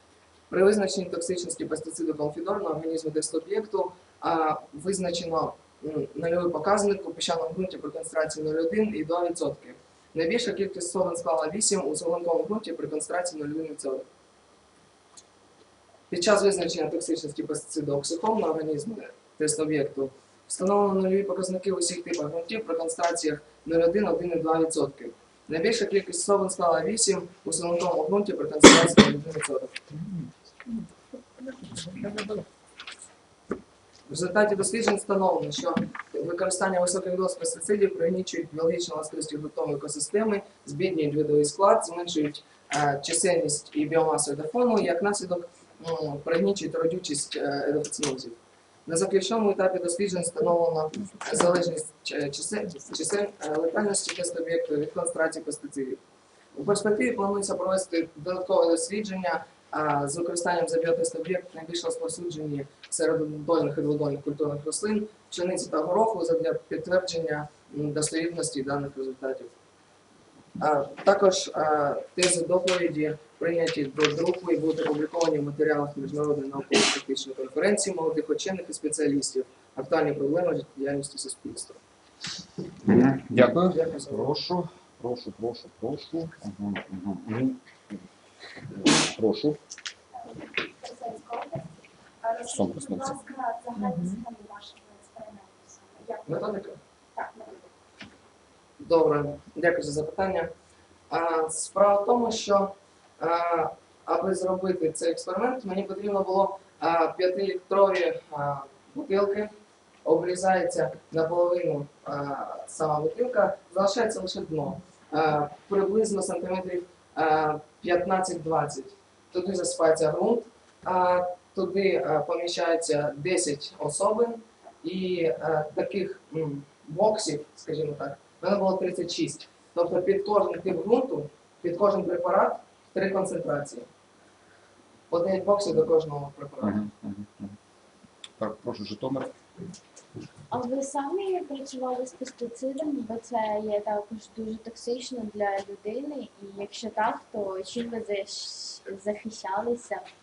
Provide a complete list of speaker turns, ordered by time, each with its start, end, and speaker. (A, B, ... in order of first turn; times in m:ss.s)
0:00.5-0:14.0 A
0:16.1-0:29.8 A
0:34.1-0:56.0 A
0:56.5-1:09.5 A
1:10.6-1:21.8 A
1:22.8-1:28.0 B
1:23.5-1:24.3 A
1:28.7-1:29.6 B
1:30.6-1:31.7 C
1:32.2-1:36.4 C
1:32.4-1:33.2 B
1:36.2-1:36.8 A
1:37.2-1:37.6 C
1:38.8-1:40.5 A
1:41.1-1:49.5 A
1:50.0-2:13.9 A
2:15.1-2:16.8 A
2:16.6-2:17.6 B
2:18.4-2:19.3 B
2:20.5-2:30.0 D